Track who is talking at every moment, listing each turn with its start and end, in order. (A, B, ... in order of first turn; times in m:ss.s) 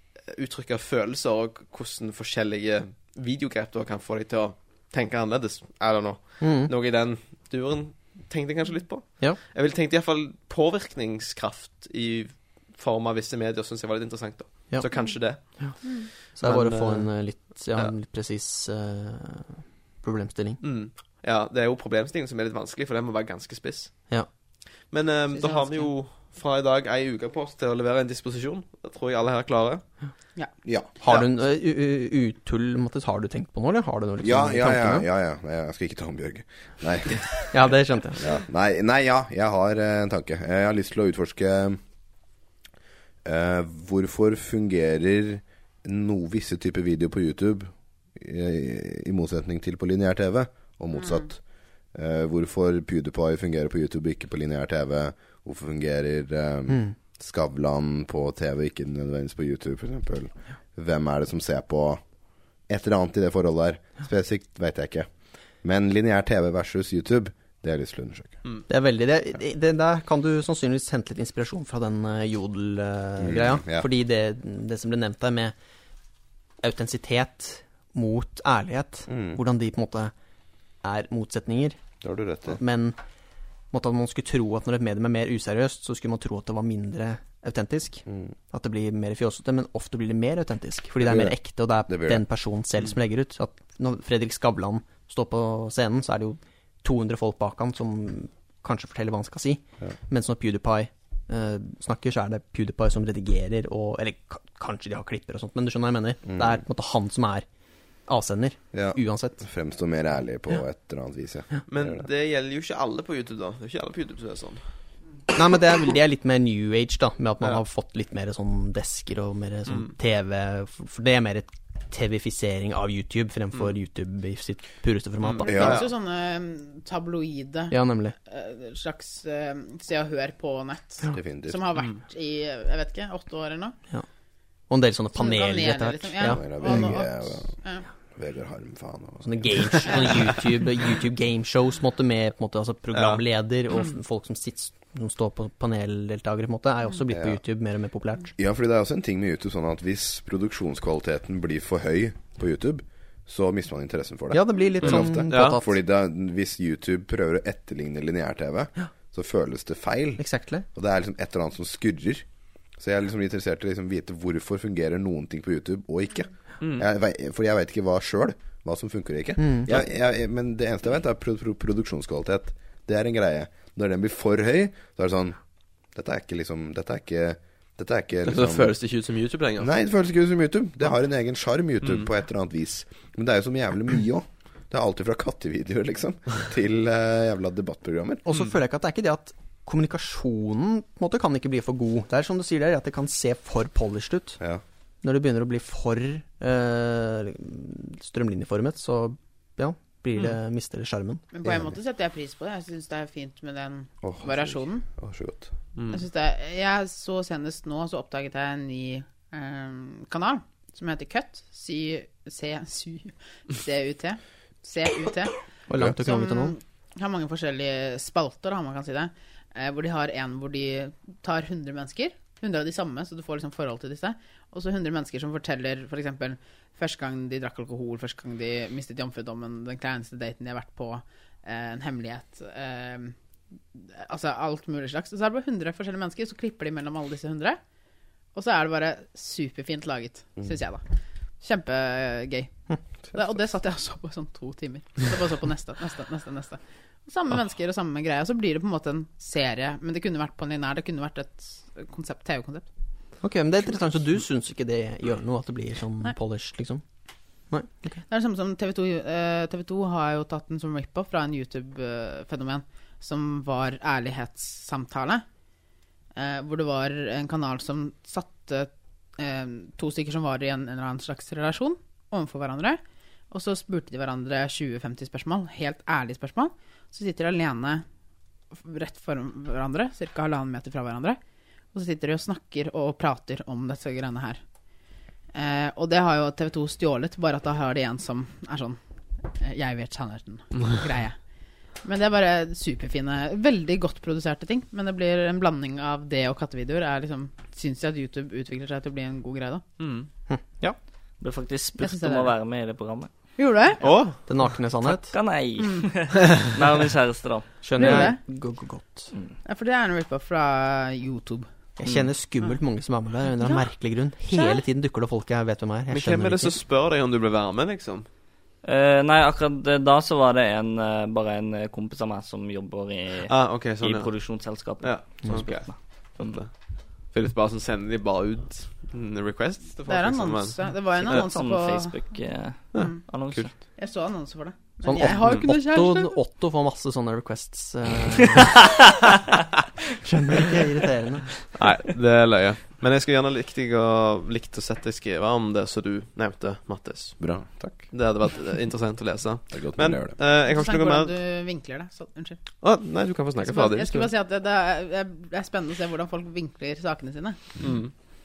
0:00.2-0:17.9 A
0:06.4-0:06.7 B
0:14.7-0:20.6 B
0:15.8-0:16.1 C
0:20.6-0:24.1 A
0:24.9-0:29.8 A
0:25.3-0:25.9 C
0:30.6-0:31.0 D
0:31.0-0:35.0 B
0:34.2-0:41.8 D
0:37.5-0:38.2 B
0:43.2-1:02.1 D
0:50.9-0:51.3 C
0:56.7-0:56.9 B
1:02.6-1:08.4 D
1:08.7-1:15.5 B
1:13.2-1:13.9 D
1:16.6-1:20.1 B
1:19.1-1:19.4 D
1:20.8-1:21.8 B
1:22.0-1:22.6 D
1:22.5-1:23.0 B
1:23.7-1:47.4 B
1:28.0-1:28.3 D
1:31.0-1:32.2 D
1:46.2-1:46.6 D
1:48.1-1:49.4 B
1:48.7-1:52.0 D
1:51.7-1:54.6 A
1:55.3-2:05.8 B
2:05.2-2:05.9 A
2:05.4-2:05.8 D
2:05.4-2:13.8 C
2:07.7-2:08.1 B
2:11.1-2:11.6 D
2:14.7-2:17.0 B
2:15.1-2:17.9 C
2:16.2-2:17.6 D
2:18.1-2:20.0 D
2:19.2-2:28.3 B
2:19.9-2:20.2 C
2:22.9-2:23.2 A
2:27.1-2:27.4 D
2:28.4-2:42.2 D
2:34.3-2:35.7 B
2:34.8-2:35.6 A
2:40.2-2:40.6 B
2:42.8-2:58.8 D
2:49.4-2:49.8 B
2:58.2-2:59.7 A
2:59.6-3:08.2 D
3:08.2-3:14.4 B
3:15.0-3:21.2 B
3:21.3-3:24.8 C
3:24.0-3:25.5 D
3:25.7-3:26.0 A
3:25.9-3:35.3 C
3:35.7-3:36.5 B
3:36.0-3:53.1 C
3:53.7-3:57.6 C
3:58.3-4:00.8 C
4:01.4-4:02.6 C
4:03.1-4:12.7 C
4:13.2-4:16.8 B
4:17.5-4:18.0 B
4:18.1-4:25.2 C
4:26.2-4:32.8 C
4:33.3-4:37.8 C
4:38.5-4:41.2 C
4:41.7-4:44.4 C
4:45.3-4:51.2 C
4:51.8-4:59.6 C
4:59.8-5:00.1 A
5:00.3-5:00.8 B
5:01.2-5:03.1 E
5:01.8-5:02.3 C
5:03.4-5:03.8 C
5:03.8-5:04.6 A
5:04.2-5:05.2 B
5:04.8-5:08.1 E
5:05.6-5:05.9 C
5:07.6-5:09.1 B
5:07.8-5:08.2 C
5:09.4-5:11.5 C
5:11.8-5:16.5 B
5:13.4-5:13.7 C
5:14.3-5:14.6 C
5:15.9-5:18.0 A
5:18.6-5:26.3 E
5:23.3-5:30.6 A
5:25.2-5:25.5 B
5:29.9-5:32.0 C
5:31.0-5:33.5 E
5:32.7-5:33.5 A
5:32.7-5:36.2 C
5:34.8-5:38.9 B
5:39.9-5:41.4 B
5:41.5-5:51.1 A
5:47.2-5:47.9 D
5:49.5-5:50.2 D
5:50.4-5:52.4 C
5:52.6-5:54.1 A
5:53.4-5:57.7 C
5:57.6-5:57.9 A